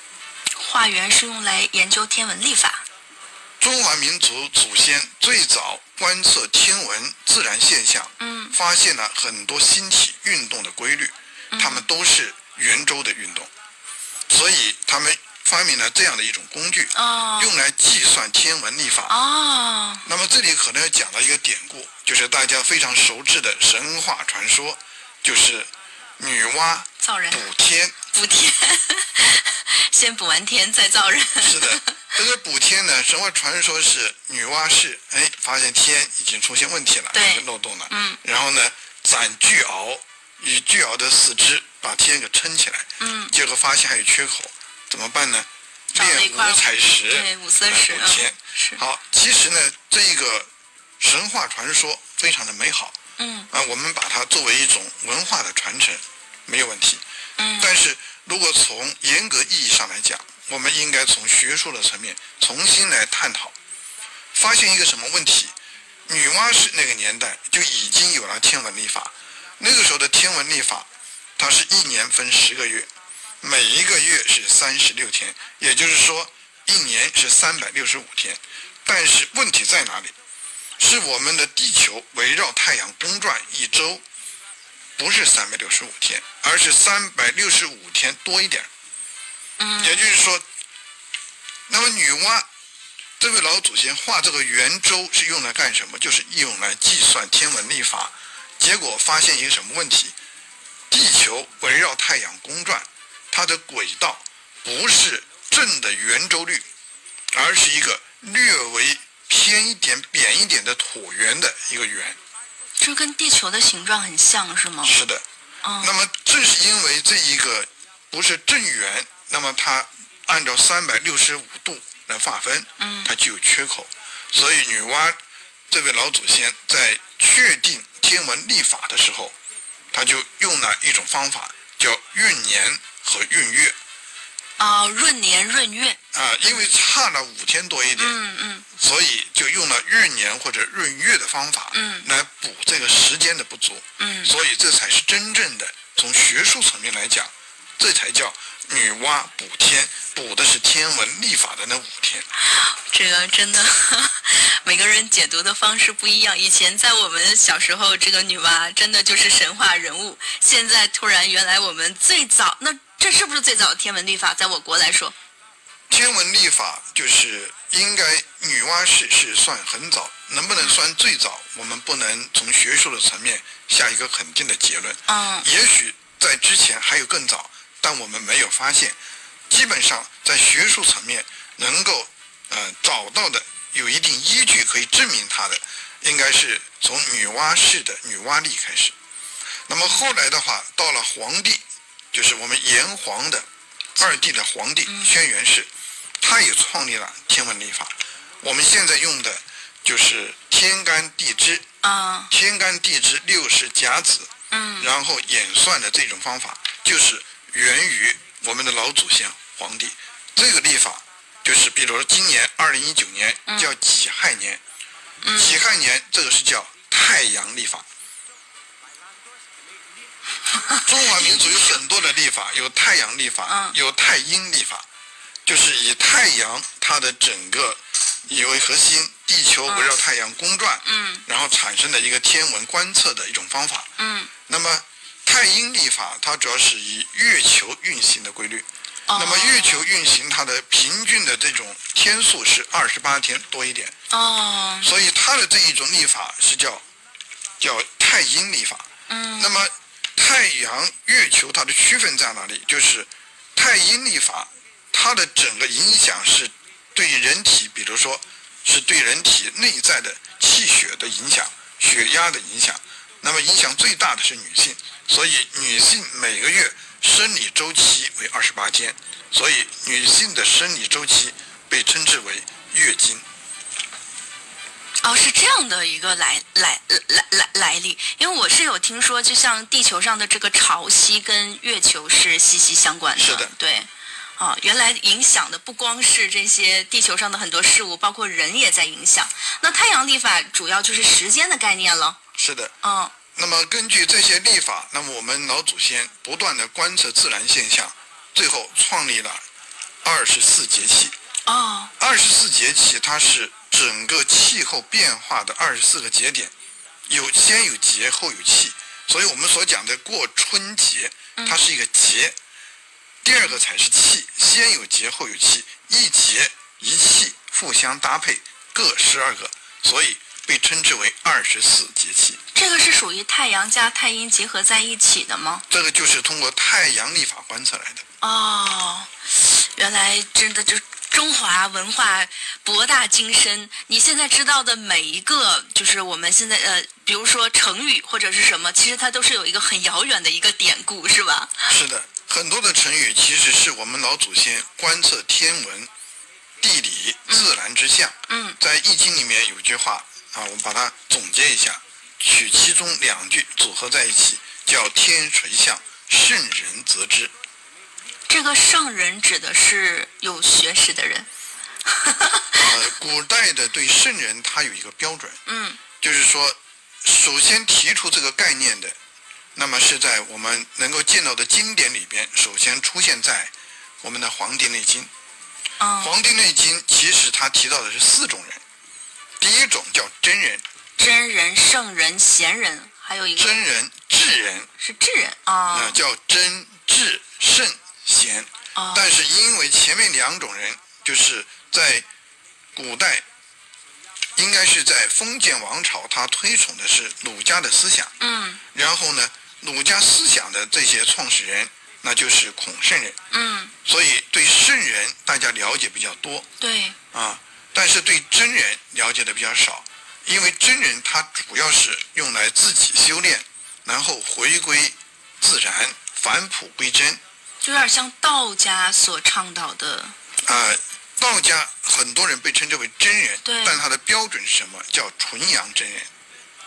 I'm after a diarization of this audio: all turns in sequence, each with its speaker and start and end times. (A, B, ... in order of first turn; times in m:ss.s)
0:00.6-0:02.8 A
0:03.6-0:13.5 B
0:08.2-0:08.6 A
0:11.5-0:11.9 A
0:14.3-0:19.2 B
0:16.9-0:17.5 A
0:19.1-0:20.0 A
0:20.0-0:28.0 B
0:27.0-0:27.4 A
0:28.1-0:32.0 A
0:31.4-0:53.0 B
0:37.1-0:38.2 A
0:43.0-0:43.3 A
0:46.0-0:48.8 A
0:53.2-0:53.5 A
0:53.5-0:57.0 B
0:57.4-0:57.7 A
0:57.6-1:03.6 B
1:04.3-1:05.5 B
1:06.1-1:12.9 B
1:13.4-1:20.2 B
1:20.8-1:24.0 B
1:25.0-1:28.7 B
1:29.6-1:30.2 A
1:29.8-1:30.4 B
1:31.7-1:32.5 B
1:33.2-1:40.2 B
1:40.9-1:46.6 B
1:47.3-1:52.2 B
1:52.8-1:55.0 A
1:54.8-1:55.2 B
1:55.6-1:55.9 A
1:55.8-2:05.2 B
2:02.8-2:03.1 A
2:05.7-2:09.4 B
2:09.9-2:13.8 B
2:14.6-2:16.7 A
2:16.1-2:18.2 B
2:18.0-2:18.7 A
2:18.8-2:32.3 B
2:21.7-2:22.1 A
2:24.0-2:24.3 A
2:32.6-2:45.1 A
2:45.9-2:59.0 B
2:55.1-2:55.5 A
2:59.5-3:09.0 B
3:09.7-3:13.5 B
3:14.0-3:15.7 B
3:14.9-3:15.1 A
3:16.2-3:21.6 B
3:21.8-3:22.3 A
3:22.3-3:34.6 B
3:24.5-3:24.9 A
3:33.5-3:33.8 A
3:35.2-3:35.6 A
3:35.4-3:37.9 B
3:40.7-3:41.8 A
3:40.9-3:44.9 B
3:43.5-3:43.8 A
3:45.5-3:53.9 B
3:49.7-3:50.0 A
3:50.8-3:51.2 A
3:54.0-3:54.3 A
3:54.5-4:03.9 B
3:59.1-3:59.8 A
4:04.1-4:04.9 A
4:04.8-4:06.8 B
4:07.6-4:08.9 B
4:09.1-4:09.6 A
4:09.4-4:33.2 B
4:35.0-4:52.2 A
4:43.2-4:43.5 B
4:52.4-4:52.7 B
4:52.8-4:53.1 A
4:53.3-4:59.4 B
5:00.0-5:01.2 B
5:01.5-5:01.9 A
5:02.0-5:06.5 B
5:07.1-5:12.4 B
5:11.4-5:11.6 A
5:13.2-5:22.4 B
5:22.5-5:25.6 A
5:25.7-5:28.0 B
5:28.2-5:41.5 A
5:41.7-5:45.9 B
5:46.6-5:57.3 B
5:47.3-5:47.5 A
5:48.3-5:48.6 A
5:58.3-6:01.3 A
6:02.0-6:02.7 A
6:02.6-6:05.4 B
6:05.5-6:05.8 A
6:06.0-6:09.0 B
6:09.6-6:15.1 B
6:15.8-6:16.2 A
6:16.0-6:18.6 B
6:19.4-6:20.6 B
6:21.0-6:23.6 A
6:23.4-6:24.7 B
6:24.8-6:26.0 A
6:25.7-6:32.1 B
6:28.8-6:29.1 A
6:32.8-6:33.2 B
6:34.4-6:38.1 B
6:38.2-6:38.6 A
6:38.7-6:43.2 B
6:43.3-6:43.7 A
6:43.8-6:46.5 B
6:46.6-6:47.0 A
6:47.1-6:57.2 B
6:57.6-7:00.2 A
7:00.4-7:06.1 B
7:03.4-7:03.8 A